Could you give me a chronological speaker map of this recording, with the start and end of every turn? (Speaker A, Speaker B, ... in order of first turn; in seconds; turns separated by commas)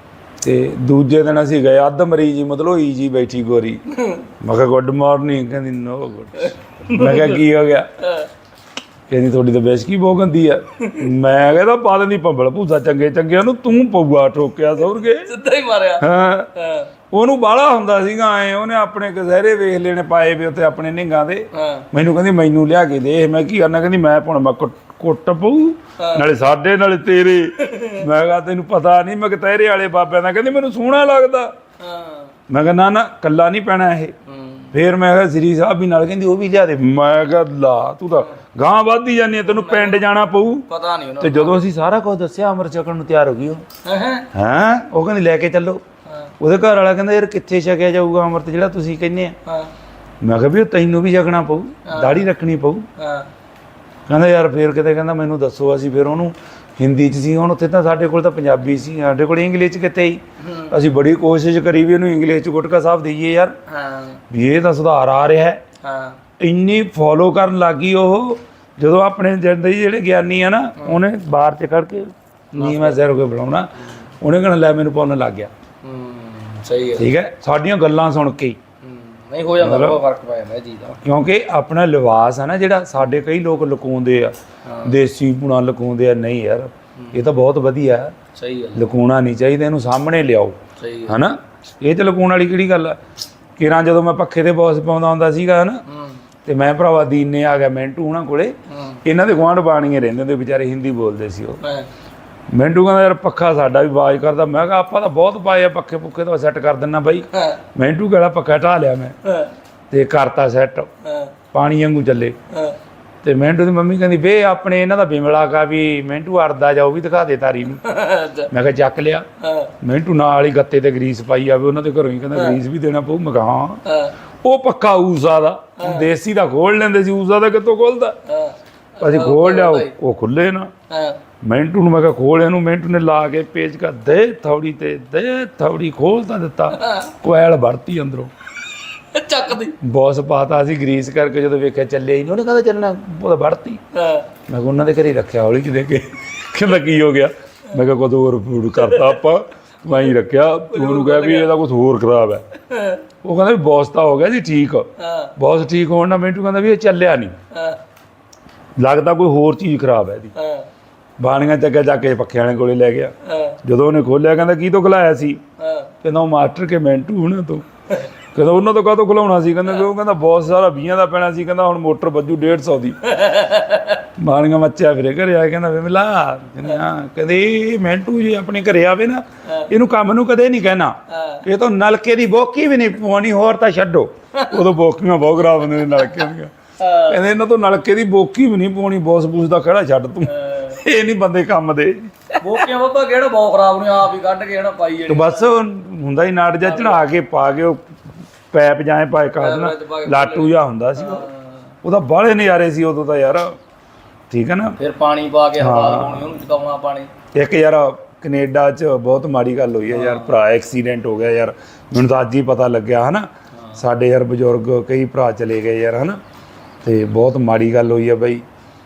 Speaker A: 0.4-3.8, Speaker B: 3.9-4.2, Speaker A: 4.4-7.9, Speaker B: 6.9-7.4, Speaker B: 8.0-8.3, Speaker A: 9.1-15.3, Speaker B: 15.2-16.9, Speaker A: 16.0-16.5, Speaker A: 17.1-31.5, Speaker B: 21.5-21.9, Speaker B: 26.0-26.2, Speaker B: 27.6-28.1, Speaker B: 31.8-32.3, Speaker A: 32.5-34.1, Speaker B: 34.3-34.7, Speaker A: 34.7-40.7, Speaker B: 39.4-40.0, Speaker B: 40.7-41.6, Speaker A: 41.2-43.6, Speaker B: 43.8-44.3, Speaker A: 44.3-45.8, Speaker B: 46.1-46.3, Speaker A: 46.4-49.4, Speaker B: 49.5-49.7, Speaker A: 50.2-52.9, Speaker B: 51.9-52.2, Speaker B: 53.0-53.3, Speaker A: 54.1-63.5, Speaker B: 60.4-60.8, Speaker B: 63.7-64.2, Speaker A: 64.3-65.6, Speaker B: 65.8-66.2, Speaker A: 66.4-75.5, Speaker B: 72.5-73.0, Speaker B: 75.8-77.1, Speaker A: 77.0-78.6, Speaker B: 78.8-81.0, Speaker A: 79.6-80.0, Speaker A: 81.0-88.1, Speaker B: 84.6-84.9, Speaker B: 88.3-88.8, Speaker A: 88.8-93.0, Speaker B: 90.8-91.2, Speaker A: 93.6-95.8, Speaker B: 95.9-96.2, Speaker A: 96.4-101.6, Speaker B: 98.7-99.0, Speaker B: 101.6-101.9, Speaker A: 102.5-109.2, Speaker B: 107.3-107.6, Speaker B: 109.2-109.5, Speaker A: 109.9-110.9, Speaker B: 111.0-111.3, Speaker A: 111.5-112.4, Speaker B: 112.5-112.8, Speaker A: 113.2-117.8, Speaker B: 117.8-118.5, Speaker A: 118.5-119.3, Speaker B: 119.4-119.7, Speaker A: 119.8-123.8, Speaker B: 122.3-122.6, Speaker B: 123.8-124.1, Speaker A: 124.4-128.2, Speaker B: 125.8-126.1, Speaker B: 128.3-129.9, Speaker A: 129.0-130.7, Speaker B: 130.9-131.2, Speaker A: 131.4-138.3, Speaker B: 136.7-137.1, Speaker B: 139.1-139.8, Speaker A: 139.8-143.8, Speaker B: 143.9-144.3, Speaker A: 144.5-152.4, Speaker B: 148.9-149.2, Speaker B: 150.7-151.5, Speaker B: 152.7-153.0, Speaker A: 153.2-157.4, Speaker B: 155.0-155.3, Speaker B: 157.5-157.8, Speaker A: 158.8-160.3, Speaker B: 160.3-160.7, Speaker A: 161.2-165.4, Speaker B: 163.2-163.6, Speaker B: 165.6-165.9, Speaker A: 166.0-167.7, Speaker A: 168.3-173.2, Speaker B: 173.0-174.0, Speaker A: 174.2-186.5, Speaker B: 181.1-181.4, Speaker B: 184.3-184.7, Speaker B: 186.8-187.2, Speaker A: 187.1-192.1, Speaker B: 190.3-190.8, Speaker B: 192.4-195.5, Speaker A: 195.1-197.8, Speaker B: 196.6-197.0, Speaker A: 198.5-201.3, Speaker B: 199.4-201.5, Speaker A: 201.8-203.6, Speaker A: 204.3-204.8, Speaker B: 204.8-207.1, Speaker A: 205.6-206.3, Speaker A: 207.3-216.2, Speaker B: 209.9-210.3, Speaker A: 216.8-218.4